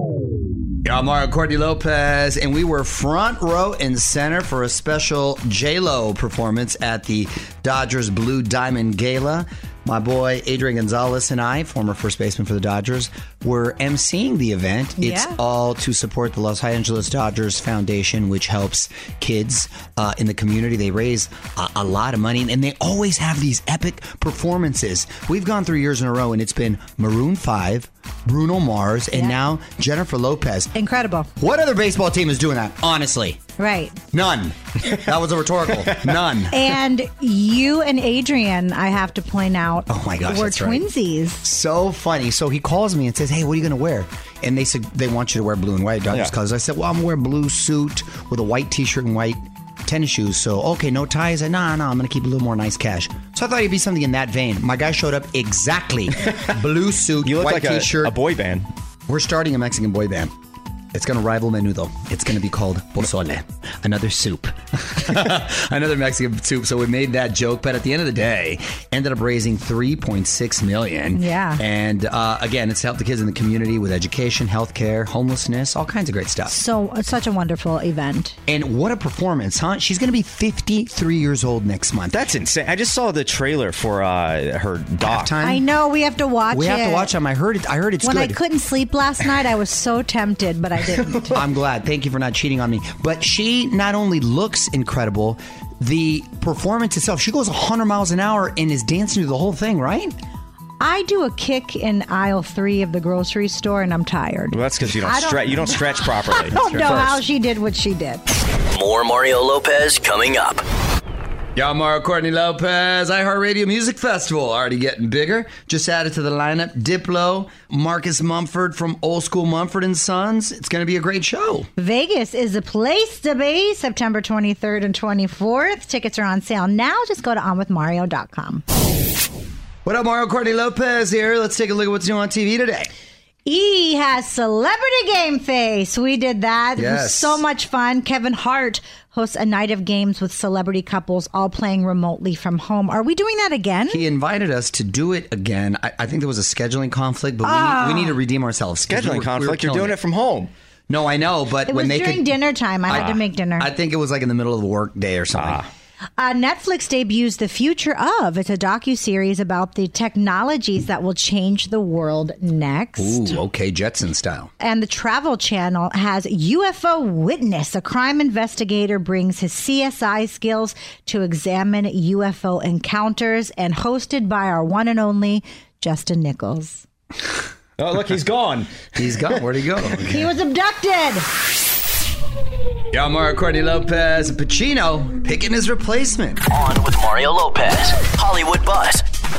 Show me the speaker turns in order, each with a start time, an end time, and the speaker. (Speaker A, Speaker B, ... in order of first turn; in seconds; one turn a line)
Speaker A: 0.8-30.7
Speaker B: 15.0-15.4
Speaker B: 30.7-31.3
Speaker A: 31.4-33.4
Speaker B: 33.6-34.0
Speaker A: 34.1-36.6
Speaker B: 36.5-41.4
Speaker A: 39.9-40.9
Speaker A: 41.4-58.1
Speaker C: 57.2-58.7
Speaker A: 59.1-60.3
Speaker A: 60.9-76.6
Speaker B: 71.1-71.6
Speaker B: 76.5-78.4
Speaker A: 78.5-82.2
Speaker C: 82.1-85.3
Speaker A: 85.0-85.6
Speaker B: 85.4-87.1
Speaker A: 86.5-88.4
Speaker B: 88.0-91.3
Speaker C: 90.9-91.3
Speaker A: 91.3-100.1
Speaker B: 100.8-108.2
Speaker C: 104.5-107.2
Speaker D: 108.7-110.6
Speaker A: 111.5-121.7
Speaker B: 121.8-128.6
Speaker A: 129.8-132.9
Speaker B: 133.4-144.0
Speaker A: 136.8-137.4
Speaker A: 143.9-149.9
Speaker B: 147.4-148.1
Speaker C: 148.9-150.5
Speaker A: 150.9-152.3
Speaker B: 151.7-153.7
Speaker A: 152.9-155.6
Speaker C: 152.9-153.2
Speaker C: 155.3-155.7
Speaker B: 156.2-163.4
Speaker A: 163.0-164.5
Speaker B: 164.6-176.8
Speaker C: 177.8-178.9
Speaker A: 178.9-180.3
Speaker B: 180.1-181.2
Speaker A: 182.9-186.4
Speaker D: 186.5-189.0